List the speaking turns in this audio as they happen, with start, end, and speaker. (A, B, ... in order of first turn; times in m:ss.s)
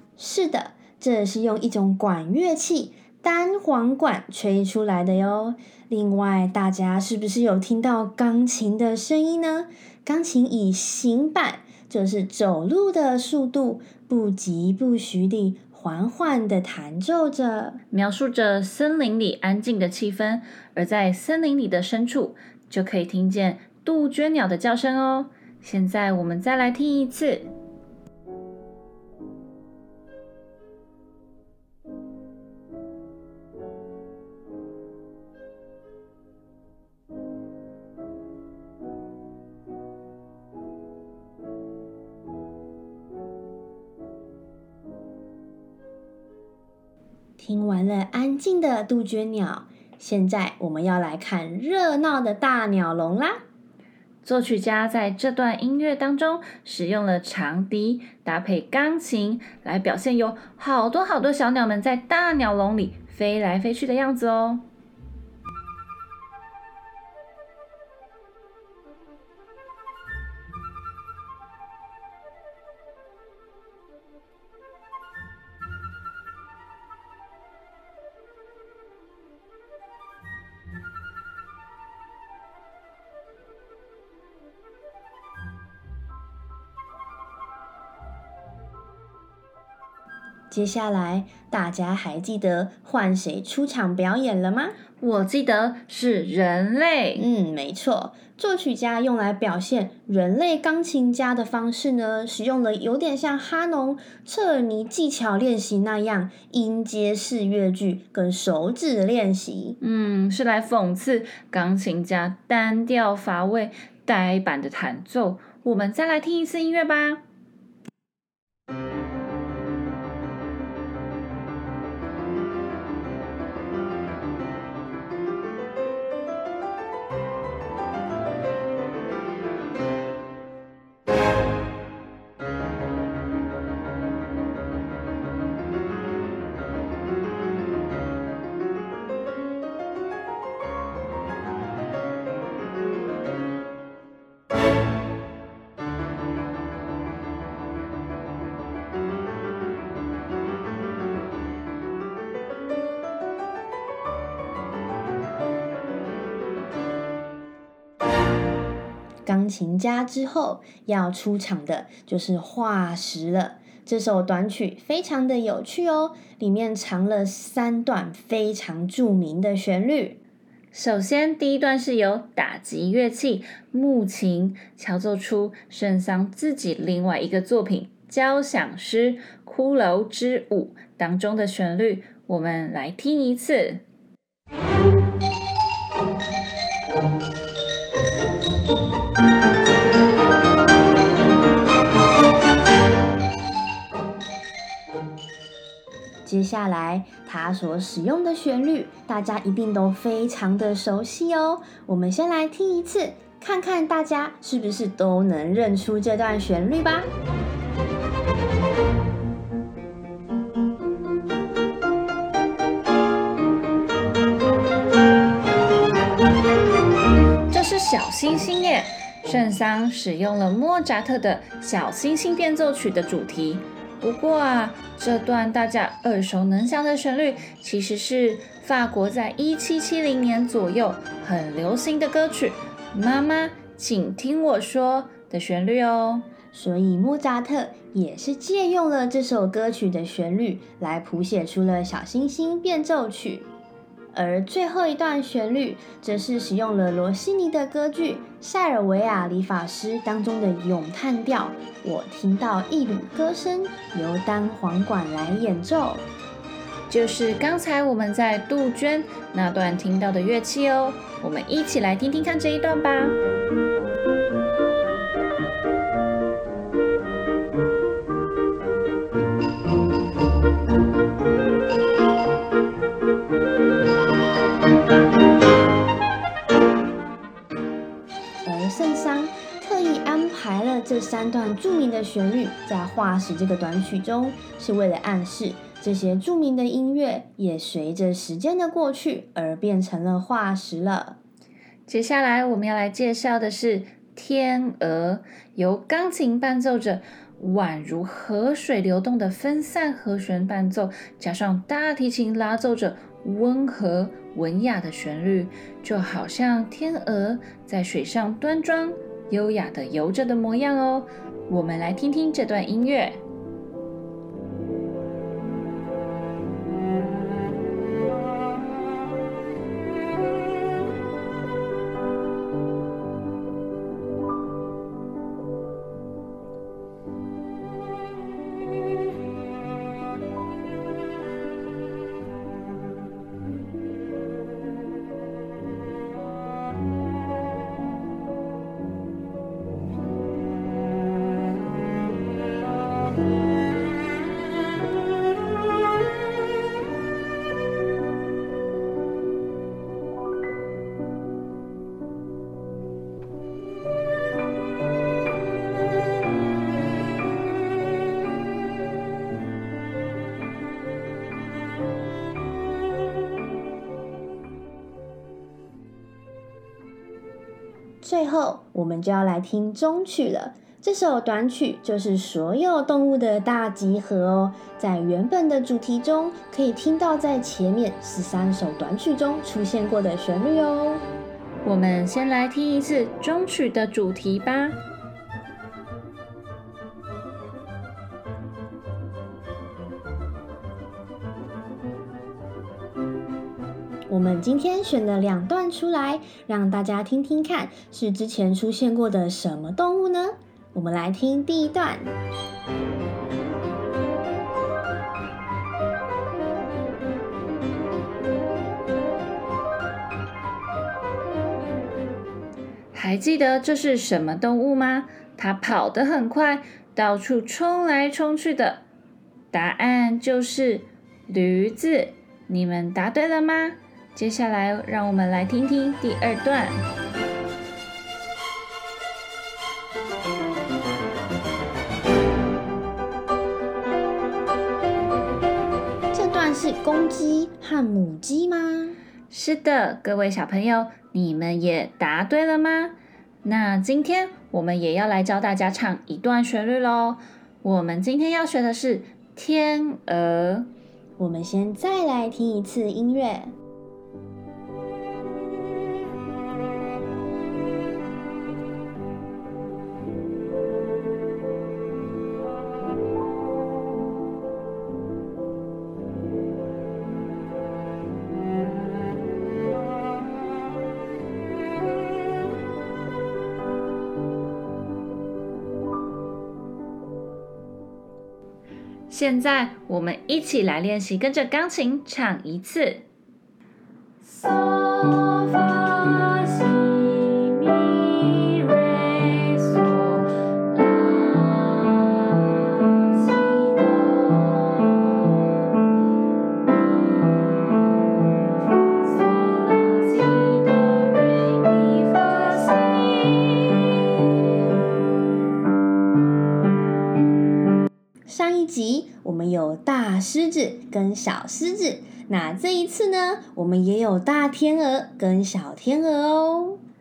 0:00.2-0:17.8 A
0:17.9-0:27.5 B
0:47.4-0:53.4 A
0:54.2-1:04.6 B
1:30.5-1:34.8 A
1:35.0-1:37.2 B
1:37.1-1:49.8 A
1:49.8-1:57.2 B
2:39.2-2:50.2 A
2:50.7-3:03.8 B
3:16.2-3:27.1 A
3:37.5-3:56.3 B
3:56.5-4:03.5 A
4:04.1-4:16.1 A
4:16.9-4:23.2 B
4:38.4-4:51.2 A
4:51.9-5:13.2 B
6:08.0-6:21.0 A
6:21.6-6:24.8 B
6:34.1-6:42.1 A
6:52.9-6:58.8 B
6:59.5-7:06.8 B
7:16.1-7:19.0 A
7:19.3-7:30.7 B
7:31.2-7:33.5 A
7:59.1-8:03.0 B
8:04.2-8:15.3 B
8:16.7-8:17.8 B
8:18.7-8:24.7 B
8:28.3-8:36.8 A